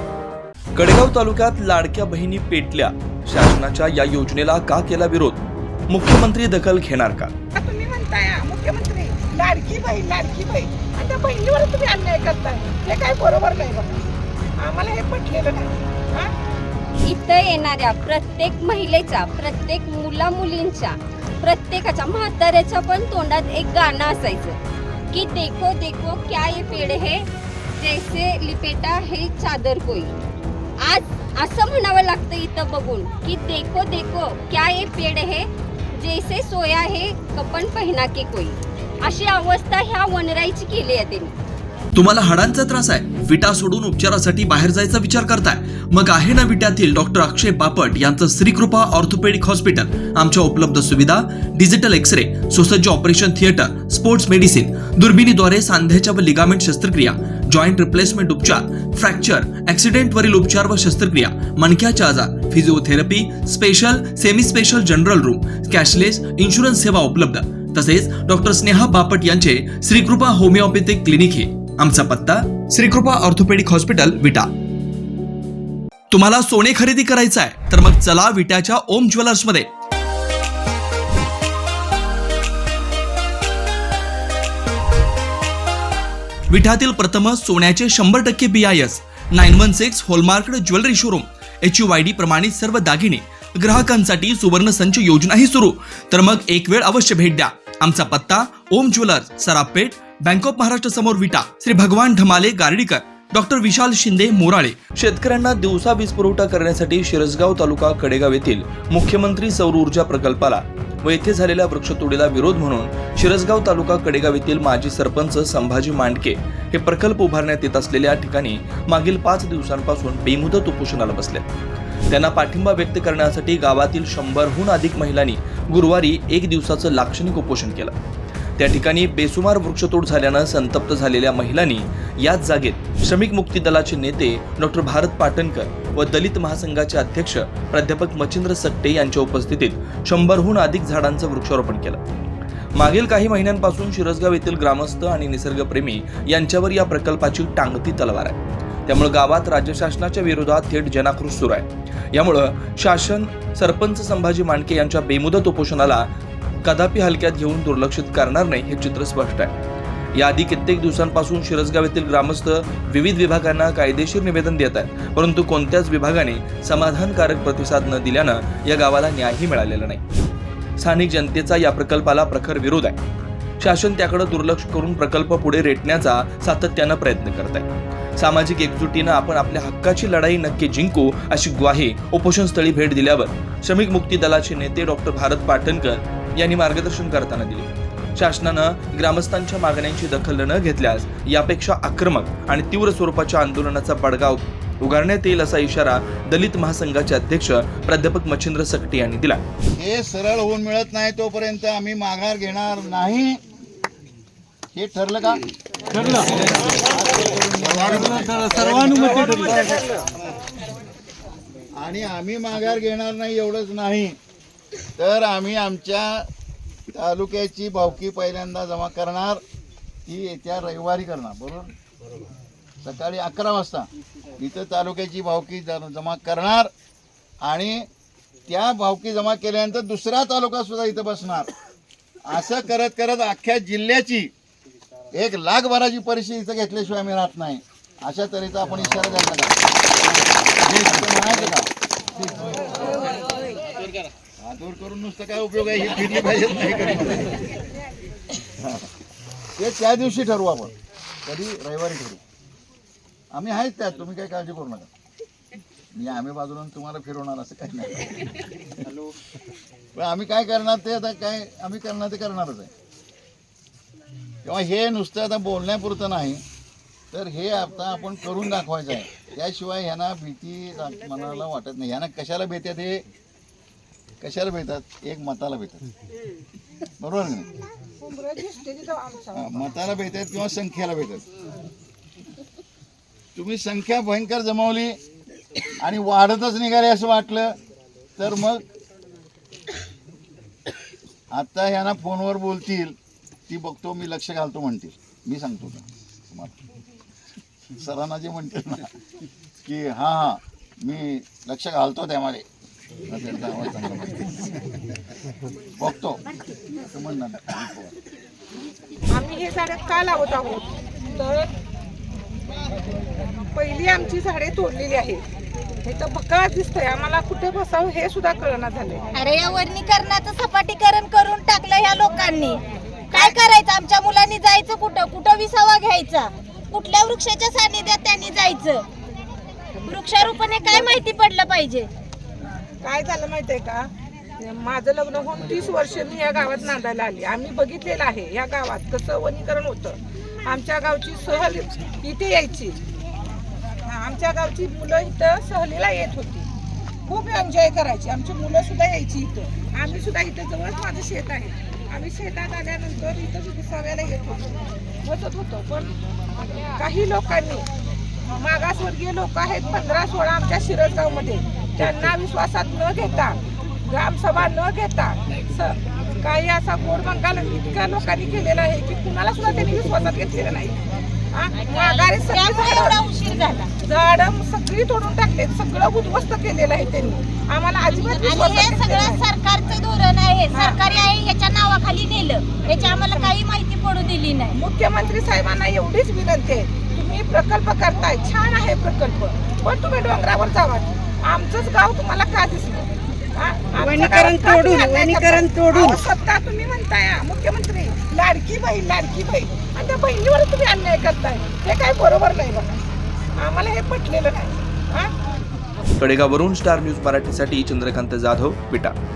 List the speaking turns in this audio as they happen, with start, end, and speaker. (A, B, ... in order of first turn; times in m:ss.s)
0:00.8-0:07.3 A
0:07.6-0:14.0 B
0:14.6-0:16.3 B
0:17.0-0:24.6 C
0:25.1-0:27.3 C
0:27.8-0:30.1 C
0:30.8-0:41.3 C
0:41.9-1:14.5 A
1:16.1-1:19.7 A
1:26.5-2:01.5 A
2:02.1-2:07.9 A
2:08.6-2:22.0 A
2:22.8-2:36.1 A
2:36.6-2:39.5 A
2:40.2-2:50.0 A
2:50.8-2:53.0 A
2:53.6-3:19.4 A
3:19.7-3:23.4 D
3:24.7-3:29.8 D
3:31.8-3:34.2 D
3:35.0-3:36.3 D
3:36.9-3:39.4 D
3:40.1-3:41.7 D
3:42.8-3:46.7 D
3:47.4-3:47.9 D
3:48.5-3:51.5 D
3:52.2-3:54.3 D
3:55.1-3:59.6 D
4:00.4-4:02.8 D
4:04.4-4:07.4 D
4:08.6-4:08.8 D
4:09.6-4:10.7 D
4:11.2-4:12.2 D
4:13.3-4:14.9 D
4:15.9-4:19.0 D
4:19.9-4:22.7 D
4:24.4-4:26.4 D
4:27.1-4:33.0 D
4:34.2-4:35.9 D
4:37.0-4:37.5 D
4:38.0-4:39.6 B
4:39.4-4:41.2 D
4:43.3-4:45.0 D
4:45.8-4:47.6 D
4:48.2-4:48.6 D
4:51.3-4:53.0 D
4:53.5-4:56.6 D
4:57.7-4:58.9 D
4:59.6-5:02.4 D
5:03.1-5:04.6 D
5:05.8-5:06.2 D
5:06.8-5:07.9 D
5:09.1-5:11.5 B
5:13.5-5:15.2 B
5:15.8-5:19.0 B
5:19.1-5:28.9 E
5:23.1-5:23.4 B
5:29.8-5:31.9 E
5:32.8-5:42.8 B
5:43.9-5:46.5 B
5:47.1-5:55.9 B
5:56.7-5:57.6 B
5:58.2-6:10.8 B
6:11.3-6:13.0 B
6:11.7-6:13.8 E
6:13.8-6:19.2 B
6:17.9-6:24.5 E
6:20.5-6:20.8 B
6:23.1-6:23.3 B
6:24.5-6:42.8 B
6:33.8-6:36.0 E
6:43.4-6:45.1 B
6:46.0-6:48.9 A